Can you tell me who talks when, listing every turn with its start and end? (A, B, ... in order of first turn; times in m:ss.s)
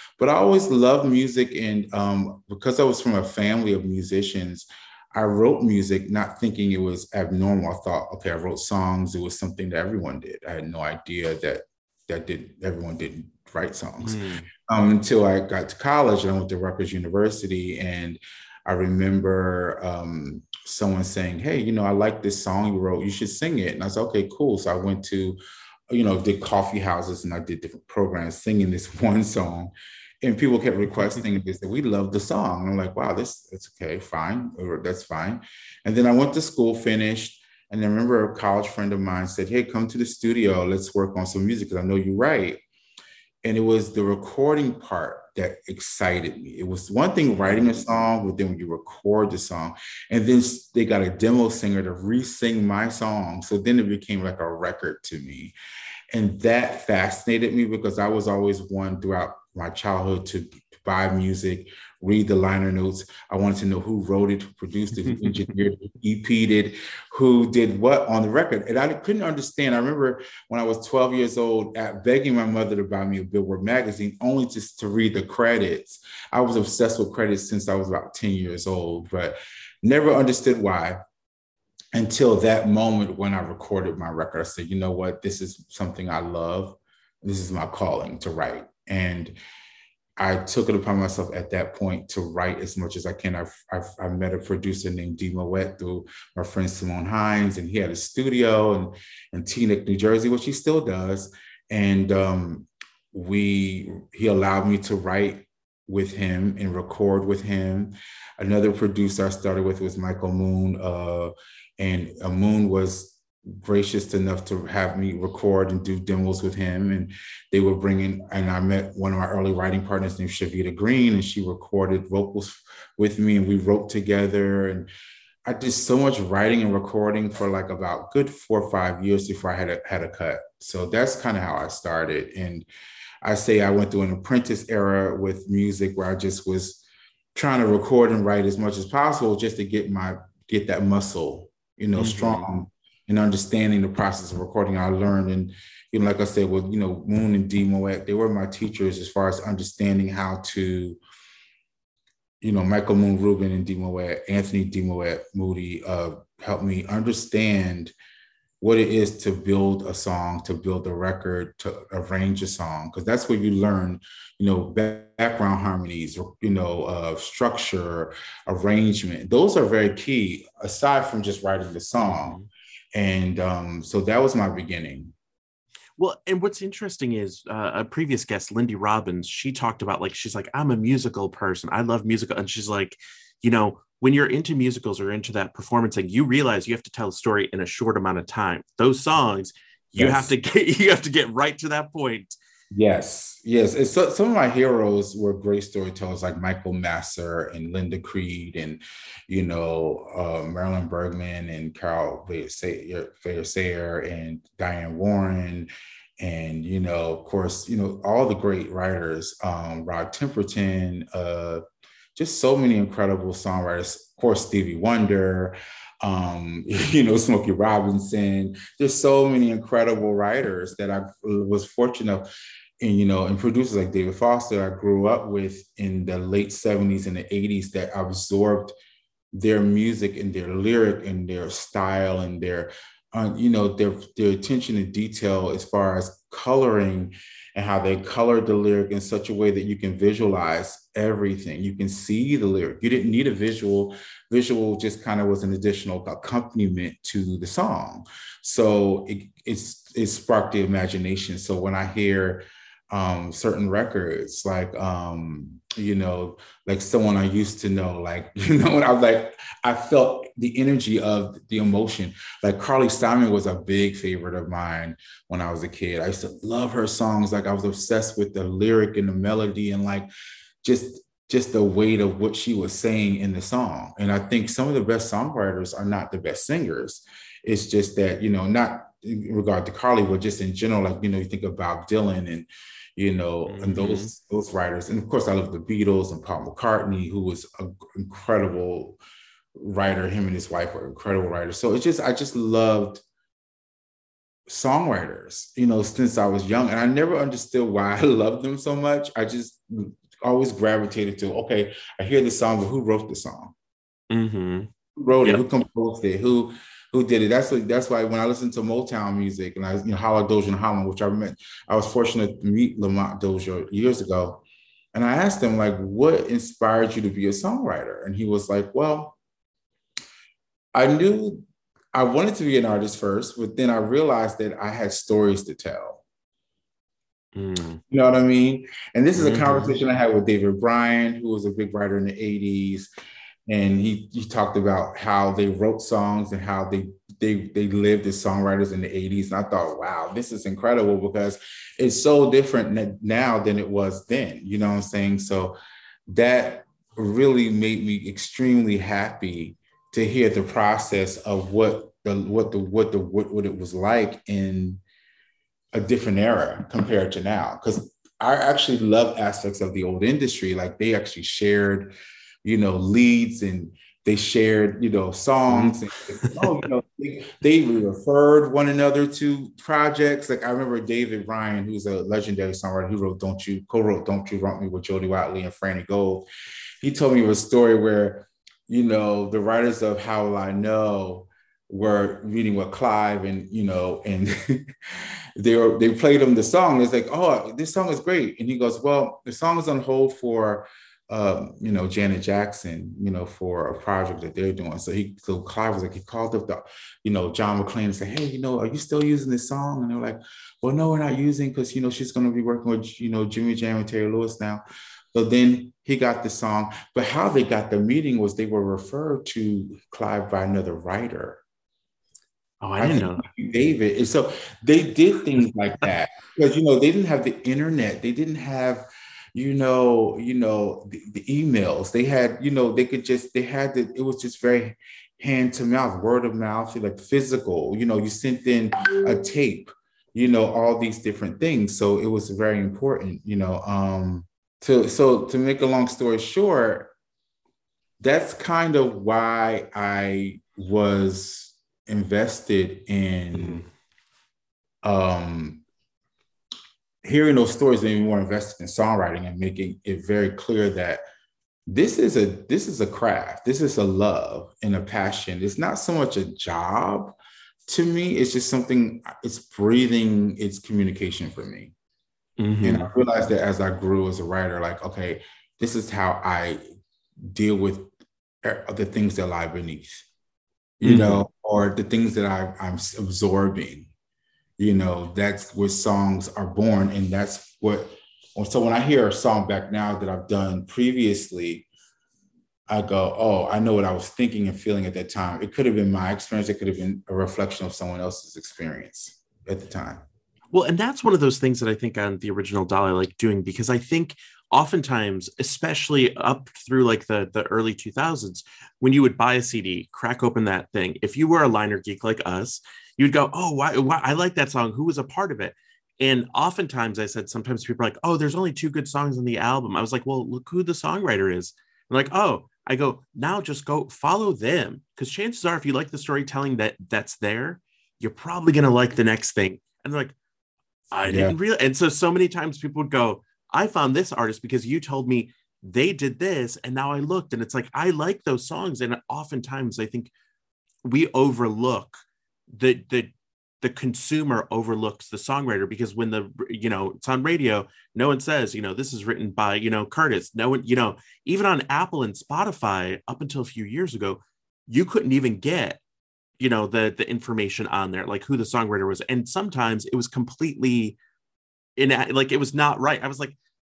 0:00.2-0:42.6 A
0:14.0-0:14.5 B
0:43.4-0:55.5 A
0:56.1-1:21.0 A
1:05.0-1:05.4 B
1:21.9-1:29.4 A
1:30.2-2:04.9 A
2:05.4-2:12.7 A
2:13.2-2:16.8 A
2:17.3-2:31.0 A
2:22.0-2:22.5 B
2:32.4-2:37.9 A
2:38.6-2:52.4 A
2:52.0-2:52.5 B
2:52.9-2:55.1 A
2:56.0-3:12.4 B
3:10.0-3:10.3 A
3:12.7-3:31.6 A
3:32.2-3:42.3 A
3:42.8-3:48.7 A
3:49.3-4:30.1 A
4:30.6-4:49.0 A
4:43.4-4:44.1 B
4:49.6-4:53.0 A
4:54.5-5:03.5 A
5:04.1-5:04.7 B
5:05.0-5:14.4 A
5:14.9-5:19.2 A
5:20.7-5:26.0 A
5:27.3-5:27.8 B
5:27.9-5:32.9 A
5:29.2-5:29.8 B
5:33.5-5:45.6 A
5:46.1-5:54.8 A
5:55.7-6:16.3 A
6:05.5-6:06.6 B
6:16.8-6:51.4 A
6:52.6-6:53.2 B
6:52.8-7:16.9 A
7:18.0-7:23.6 A
7:24.8-7:25.6 A
7:27.0-7:31.0 A
7:31.7-7:37.2 A
7:37.7-7:41.7 A
7:42.4-7:42.9 B
7:42.6-7:46.6 A
7:47.2-7:47.9 A
7:48.4-7:50.1 A
7:50.8-7:53.9 A
7:50.8-7:51.2 B
7:54.6-8:01.7 A
8:02.7-8:10.0 A
8:10.5-8:40.2 B
8:40.9-8:50.1 B
8:41.1-8:41.3 A
8:50.8-9:05.8 B
9:06.4-9:11.0 B
9:11.8-9:13.4 B